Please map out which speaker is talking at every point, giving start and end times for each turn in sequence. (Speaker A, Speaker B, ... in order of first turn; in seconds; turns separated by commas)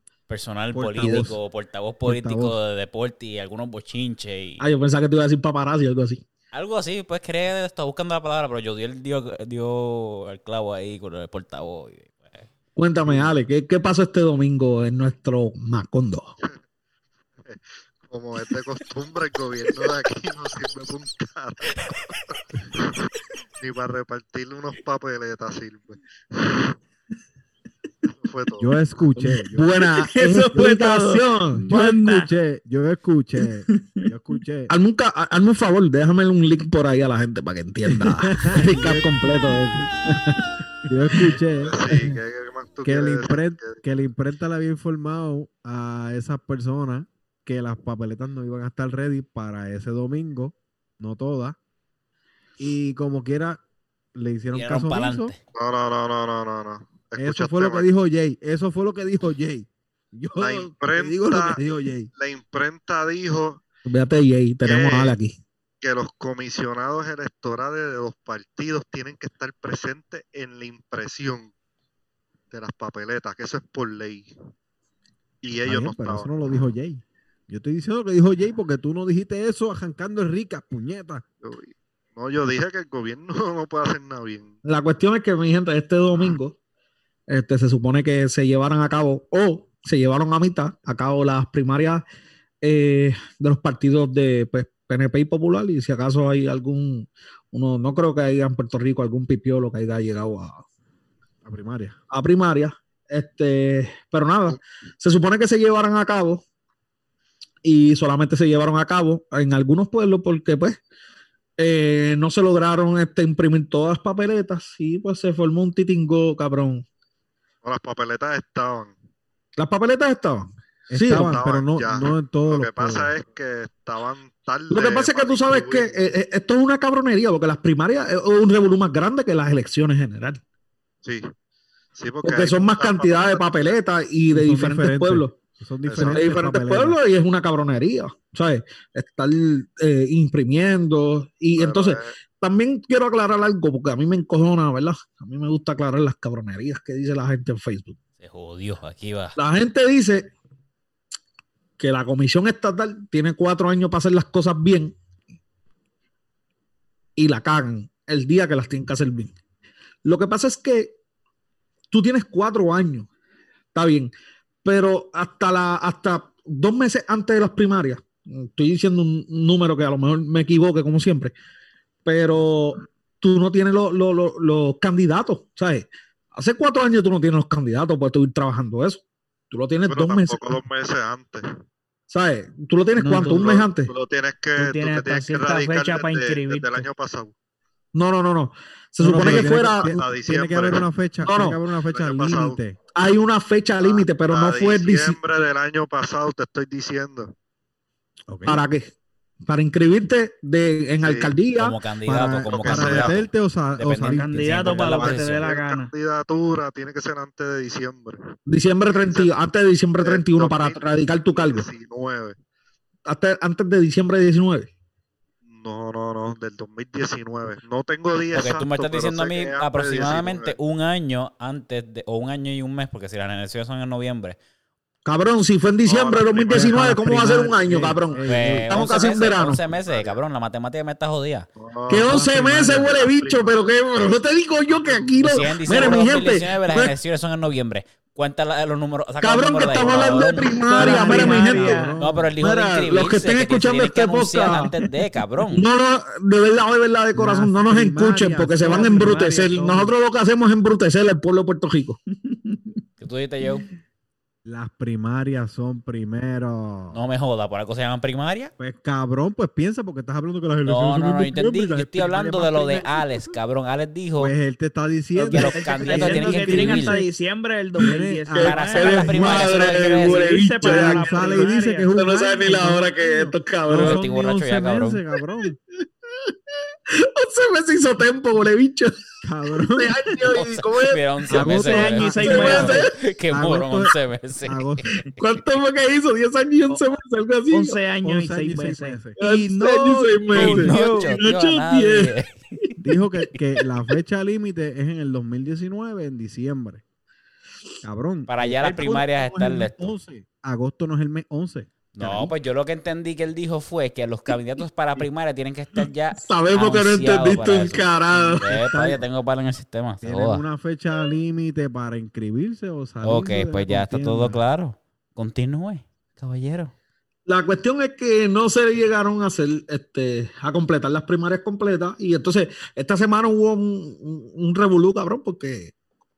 Speaker A: 0.3-4.6, Speaker B: 0.7-1.4, Speaker C: 1.0-1.3, Speaker B: 2.0-2.6, Speaker C: 4.6-6.2, Speaker A: 6.5-12.5, Speaker C: 12.8-16.3, Speaker D: 17.4-23.0, Speaker D: 23.6-26.8, Speaker D: 28.1-28.8, Speaker B: 28.6-29.7, Speaker C: 29.2-31.7, Speaker E: 29.8-32.3, Speaker B: 31.7-34.7, Speaker E: 33.7-34.1, Speaker C: 34.7-40.4, Speaker B: 37.9-39.1, Speaker B: 40.9-42.1, Speaker D: 41.6-43.8, Speaker B: 42.8-51.6, Speaker B: 52.6-53.6, Speaker B: 54.1-55.3, Speaker A: 54.5-55.4, Speaker D: 55.5-57.9, Speaker B: 57.2-62.1, Speaker D: 60.4-61.6, Speaker D: 62.1-63.6, Speaker C: 63.9-65.4, Speaker D: 64.6-65.2, Speaker D: 65.8-71.5, Speaker D: 72.5-74.3, Speaker D: 75.4-76.5, Speaker B: 75.6-81.2, Speaker D: 81.4-84.5, Speaker C: 84.7-86.5, Speaker C: 87.3-92.0, Speaker C: 92.6-100.6, Speaker B: 101.4-102.0, Speaker C: 102.1-106.4, Speaker C: 107.6-110.8, Speaker C: 111.6-116.8, Speaker D: 117.6-118.9, Speaker C: 119.6-121.3, Speaker B: 120.9-123.1, Speaker D: 121.1-126.1, Speaker C: 124.7-130.4, Speaker D: 131.0-131.3, Speaker D: 131.9-133.8, Speaker C: 132.2-135.3, Speaker B: 134.3-137.0, Speaker D: 135.8-136.2, Speaker C: 136.0-148.0, Speaker D: 141.6-142.1, Speaker A: 148.2-149.4, Speaker C: 149.4-150.3, Speaker C: 151.8-154.9, Speaker C: 157.2-159.3, Speaker C: 160.0-160.9, Speaker C: 161.9-163.1, Speaker C: 163.7-164.1, Speaker C: 164.6-171.3, Speaker C: 172.1-180.4, Speaker D: 179.9-181.5, Speaker C: 182.1-183.9, Speaker E: 183.0-183.5, Speaker D: 183.2-187.3, Speaker E: 184.5-186.9, Speaker C: 187.9-190.0, Speaker B: 189.0-192.8, Speaker D: 189.1-190.8, Speaker C: 191.2-191.6, Speaker D: 191.8-192.6, Speaker C: 192.9-195.2, Speaker D: 193.8-197.3, Speaker B: 198.3-198.6, Speaker C: 198.4-198.9, Speaker C: 199.4-201.8, Speaker D: 201.0-201.3, Speaker A: 201.6-205.5, Speaker B: 202.1-204.8, Speaker D: 202.5-203.2, Speaker E: 204.0-205.9, Speaker D: 204.8-208.2, Speaker C: 208.5-211.7, Speaker D: 209.1-209.3, Speaker D: 210.0-212.3, Speaker C: 213.1-214.7, Speaker D: 215.5-220.5, Speaker A: 218.3-224.4, Speaker C: 225.1-229.6, Speaker D: 225.8-226.8, Speaker B: 226.5-228.9, Speaker A: 228.2-231.5, Speaker D: 229.7-230.2, Speaker D: 231.6-234.1, Speaker C: 231.9-236.9, Speaker A: 232.0-232.9, Speaker D: 234.8-235.1, Speaker A: 235.2-240.6, Speaker C: 239.2-241.8, Speaker E: 240.5-242.0, Speaker B: 240.8-242.3, Speaker A: 242.0-245.6, Speaker C: 242.4-244.7, Speaker C: 245.5-252.0, Speaker B: 247.1-249.9, Speaker E: 248.7-249.3, Speaker E: 252.2-252.8, Speaker A: 253.0-253.7, Speaker B: 254.4-257.0, Speaker A: 256.9-258.5, Speaker B: 258.6-263.3, Speaker A: 260.6-264.3, Speaker B: 264.2-267.1, Speaker A: 265.1-267.0, Speaker E: 265.3-271.9, Speaker B: 267.8-269.5, Speaker C: 268.4-274.0, Speaker A: 268.4-270.3, Speaker B: 270.6-273.1, Speaker B: 273.7-275.6, Speaker A: 273.7-275.0, Speaker C: 276.9-279.0, Speaker B: 279.2-280.0, Speaker C: 279.7-282.9, Speaker A: 280.2-285.0, Speaker B: 281.3-284.9, Speaker E: 281.5-282.9, Speaker C: 285.2-287.8, Speaker E: 287.5-291.2, Speaker B: 288.0-289.2, Speaker C: 289.2-292.1, Speaker A: 290.3-292.4, Speaker B: 292.8-296.8, Speaker B: 297.8-302.3, Speaker A: 298.3-299.9, Speaker A: 301.9-310.4, Speaker C: 306.1-308.4, Speaker B: 308.3-309.0, Speaker B: 310.0-314.4, Speaker A: 313.0-316.7, Speaker C: 317.3-325.7